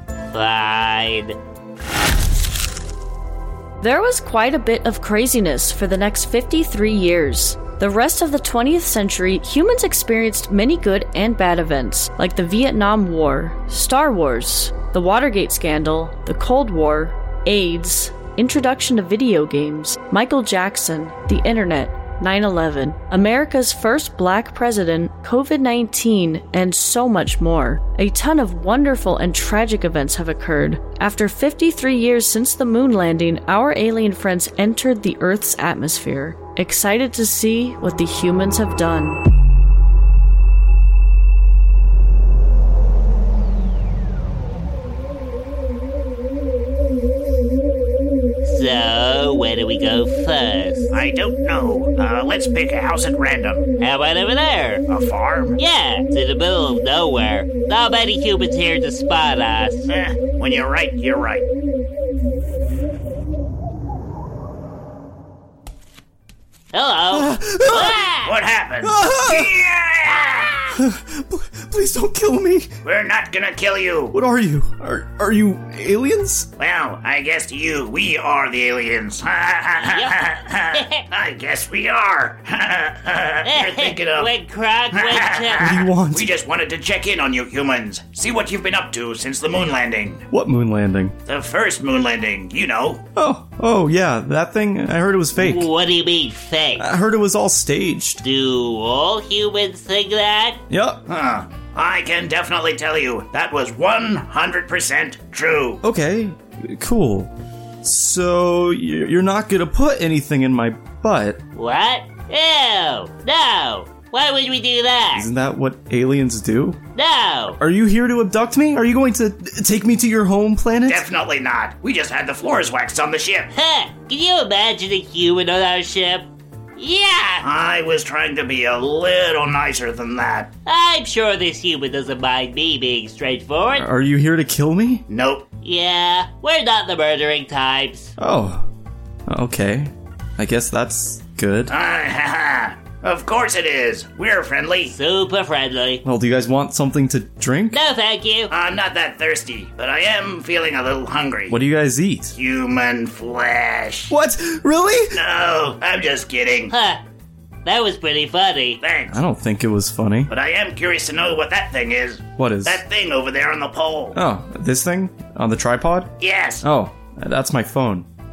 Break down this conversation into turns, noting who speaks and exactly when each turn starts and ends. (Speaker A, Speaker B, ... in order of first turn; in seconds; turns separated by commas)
Speaker A: 0.3-1.4, Speaker B: 3.8-39.2, Speaker A: 48.4-50.9, Speaker C: 50.9-53.7, Speaker A: 53.8-54.8, Speaker C: 54.9-55.6, Speaker A: 55.6-59.9, Speaker C: 59.9-61.5, Speaker A: 66.7-68.4, Speaker D: 67.1-68.1, Speaker C: 68.2-70.5, Speaker D: 68.8-69.5, Speaker D: 70.7-72.7, Speaker C: 72.8-74.2, Speaker D: 74.1-76.5, Speaker C: 76.6-84.3, Speaker A: 79.9-80.2, Speaker A: 80.7-81.0, Speaker A: 83.4-85.7, Speaker C: 84.9-90.2, Speaker D: 85.6-86.3, Speaker D: 90.3-91.2, Speaker C: 91.3-93.0, Speaker D: 93.2-95.7, Speaker A: 95.4-96.9, Speaker D: 96.8-98.2, Speaker A: 98.2-100.6, Speaker D: 100.7-101.0, Speaker C: 101.1-105.8, Speaker D: 105.8-107.3, Speaker D: 107.8-111.4, Speaker A: 111.5-115.3, Speaker D: 115.2-116.8, Speaker A: 116.9-117.6, Speaker D: 117.6-121.0, Speaker C: 120.9-123.5, Speaker A: 123.5-127.4, Speaker C: 127.4-130.5, Speaker A: 130.7-133.9, Speaker D: 133.7-135.1, Speaker C: 135.1-135.5, Speaker A: 135.6-138.1, Speaker D: 138.2-138.7, Speaker D: 139.3-141.7, Speaker C: 141.7-144.9, Speaker A: 144.9-146.0, Speaker D: 146.0-147.8, Speaker A: 147.7-148.5, Speaker C: 148.5-151.6, Speaker D: 151.5-152.3, Speaker C: 152.3-154.1, Speaker D: 154.1-155.2, Speaker C: 155.1-156.7, Speaker A: 156.7-157.0, Speaker A: 157.7-158.8, Speaker C: 158.8-159.2, Speaker D: 159.1-160.3, Speaker C: 160.3-164.2, Speaker D: 162.4-162.8, Speaker D: 164.1-166.1, Speaker C: 166.2-166.6, Speaker D: 166.6-168.1